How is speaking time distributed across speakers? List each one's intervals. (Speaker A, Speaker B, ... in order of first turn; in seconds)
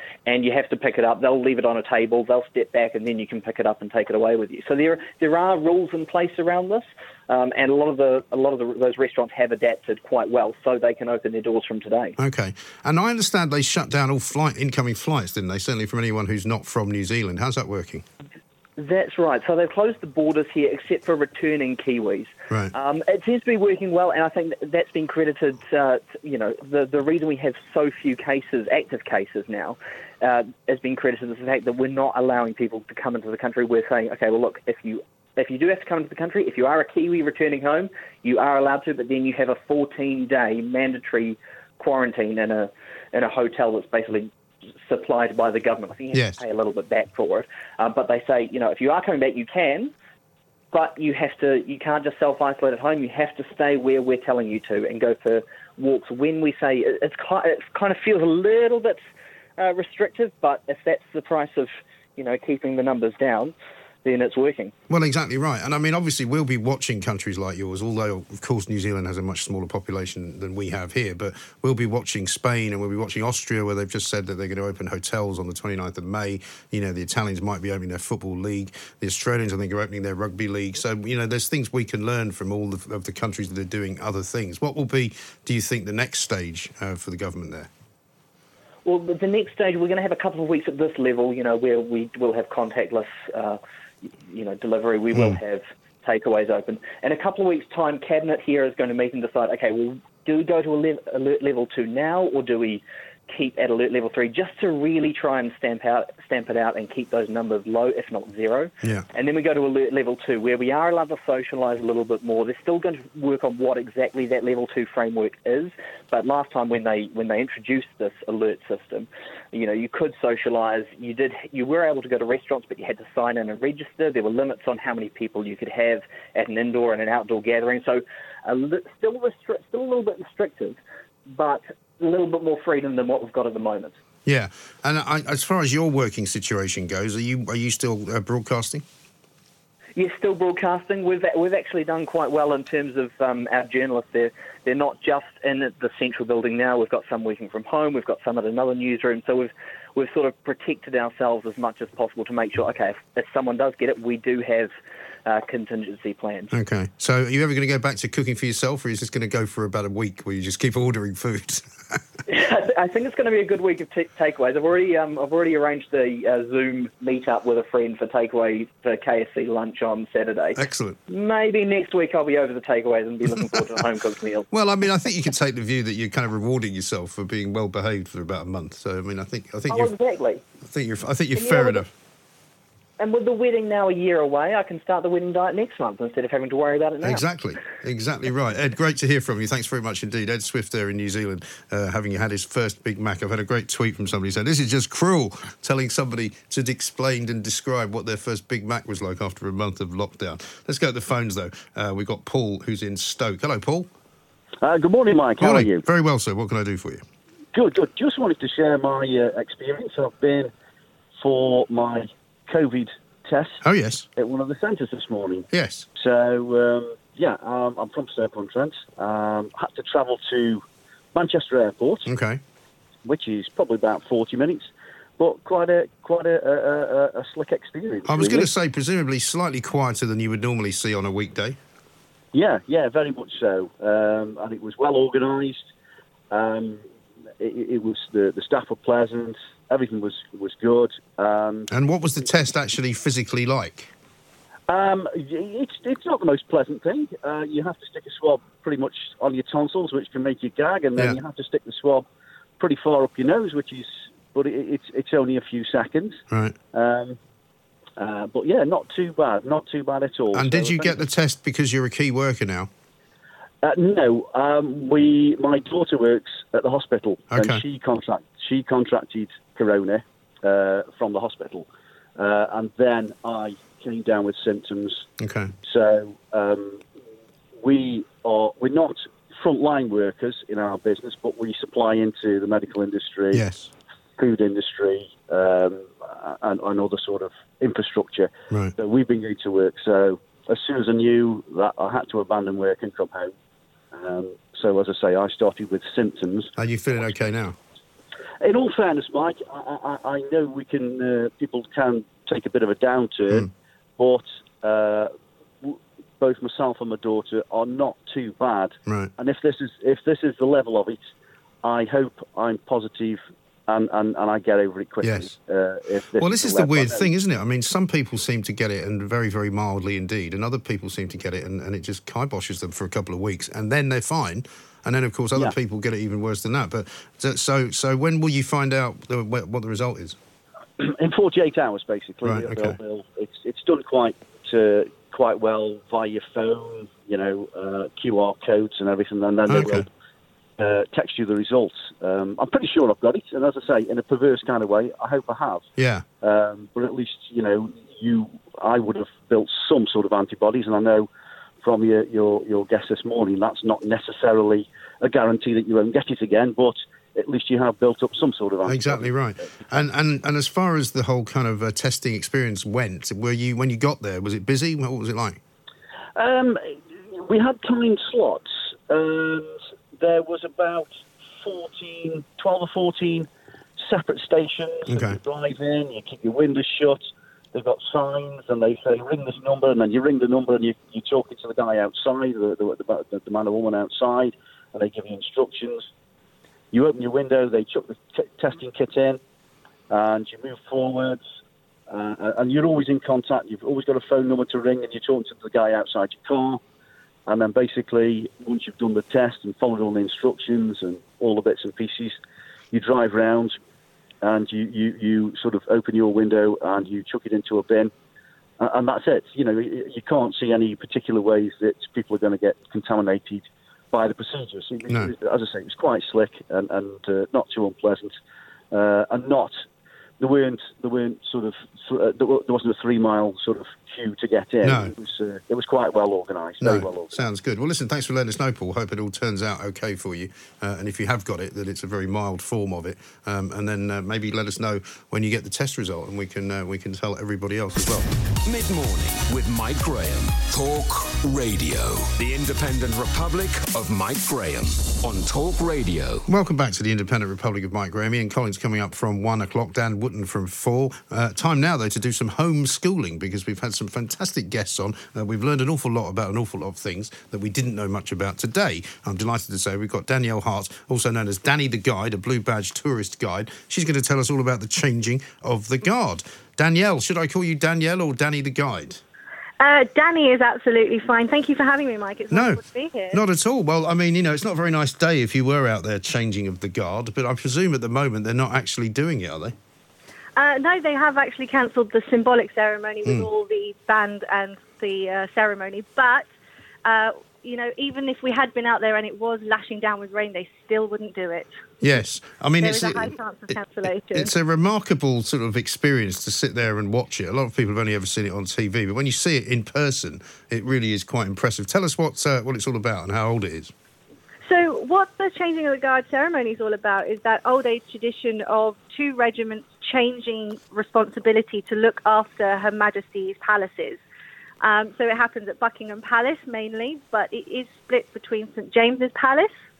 Speaker A: 0.2-12.2, 18.8-49.9, 50.7-59.0, 59.6-64.7, 88.8-130.8, 131.3-133.9, 139.9-154.7, 155.2-156.5, 162.3-174.5, 179.7-180.4, 181.3-181.8, 183.0-187.2
Speaker B: 12.2-18.0, 46.1-46.4, 64.9-87.7, 134.2-138.8, 156.5-162.0, 170.6-171.0, 174.5-179.9, 180.6-181.9, 187.0-203.9, 205.4-207.0, 213.6-214.1, 215.5-215.9, 222.1-222.4, 228.1-231.6, 241.7-243.9, 256.3-256.6, 260.3-262.7, 267.3-267.6, 275.2-275.5, 283.3-283.7, 296.6-297.6, 308.9-309.1, 315.0-315.3, 316.2-330.2, 332.2-332.8, 339.5-339.9, 345.8-346.1, 358.6-365.4, 374.9-375.2, 424.6-424.9, 426.6-438.1, 446.3-469.0, 472.3-479.5, 491.8-493.6, 494.1-503.7
Speaker C: 204.6-205.8, 207.5-210.5, 211.2-213.6, 214.2-222.1, 223.0-228.5, 232.3-235.7, 236.3-236.8, 237.4-241.7, 244.7-252.1, 252.6-257.2, 258.0-261.0, 263.6-275.1, 275.6-276.9, 277.6-283.4, 284.2-293.3, 293.9-297.1, 298.4-311.0, 311.6-317.1, 330.8-339.9, 340.6-345.6, 346.2-351.1, 351.6-359.1, 366.1-385.9, 386.7-389.2, 389.9-391.2, 391.9-396.6, 397.2-402.2, 402.7-403.6, 404.2-407.9, 408.6-418.1, 418.7-419.6, 420.2-427.3
Speaker D: 438.4-446.2
Speaker E: 469.6-473.2, 480.4-486.3, 486.8-491.5, 492.6-494.3, 504.4-514.0, 514.6-519.5